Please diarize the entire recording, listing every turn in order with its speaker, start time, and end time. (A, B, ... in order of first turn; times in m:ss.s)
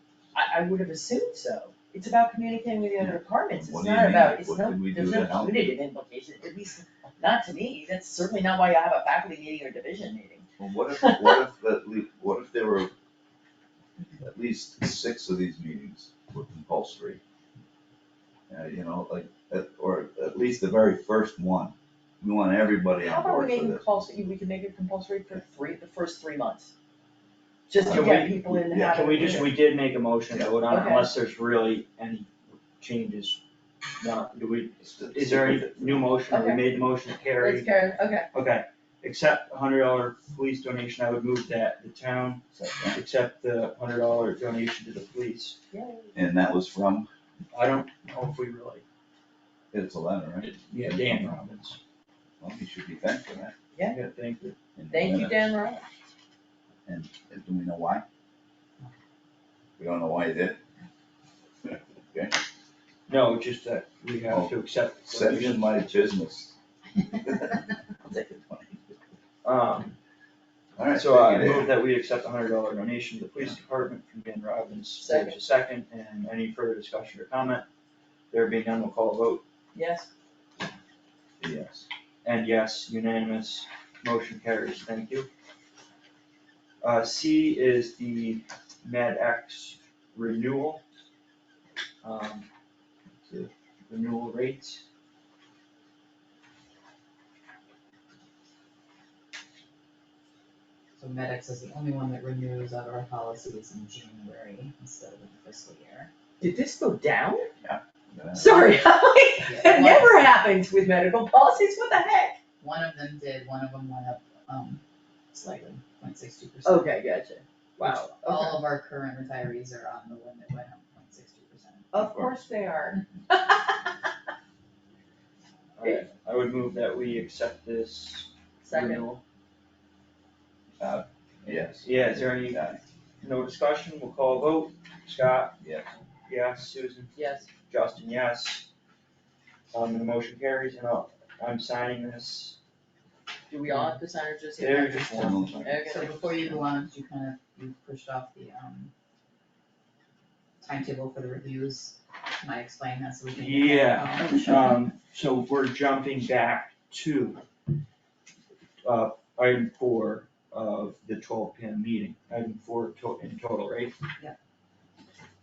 0:00.3-0:10.5 A
0:03.0-0:05.7 B
0:10.6-0:12.9 B
0:11.0-0:11.4 A
0:14.2-0:17.2 B
0:18.5-0:23.9 B
0:23.0-0:26.7 A
0:27.7-0:29.5 A
0:27.8-0:29.4 B
0:27.9-0:28.3 C
0:28.9-0:33.4 C
0:30.7-0:31.1 A
0:34.0-0:45.6 C
0:34.8-0:36.2 B
0:36.3-0:36.6 A
0:37.4-0:38.3 A
0:42.5-0:43.0 B
0:45.7-0:46.1 A
0:46.2-0:47.1 B
0:47.5-0:48.8 C
0:49.7-0:51.4 B
0:50.4-0:51.8 C
0:52.4-0:53.5 B
0:53.9-0:54.6 C
0:54.8-0:55.4 B
0:54.9-0:55.8 A
0:56.9-0:58.0 B
0:59.8-1:00.6 B
1:01.7-1:02.4 B
1:03.1-1:05.7 C
1:05.1-1:06.6 B
1:07.2-1:08.9 B
1:09.4-1:10.0 C
1:10.8-1:11.7 B
1:10.9-1:17.7 C
1:15.0-1:15.4 A
1:18.3-1:19.4 C
1:19.7-1:20.1 A
1:21.4-1:21.9 B
1:22.2-1:25.3 C
1:26.8-1:30.8 C
1:32.0-1:32.5 C
1:33.3-1:34.8 C
1:41.0-1:46.1 D
1:46.4-1:47.5 A
1:47.6-1:48.6 B
1:48.3-1:52.4 A
1:49.4-1:50.2 D
1:52.6-1:57.0 D
1:56.6-1:58.6 A
1:57.8-2:01.9 D
2:01.9-2:04.0 A
2:02.0-2:02.3 B
2:05.8-2:09.2 C
2:08.6-2:09.0 A
2:10.8-2:12.8 B
2:11.8-2:12.6 C
2:13.2-2:15.6 C
2:15.6-2:15.9 B
2:16.3-2:18.7 C
2:17.2-2:17.5 A
2:19.7-2:22.6 C
2:23.5-2:26.2 A
2:23.7-2:24.0 C
2:24.6-2:25.9 C
2:25.9-2:28.9 D
2:30.6-2:34.7 D
2:33.3-2:37.4 C
2:38.8-2:44.0 C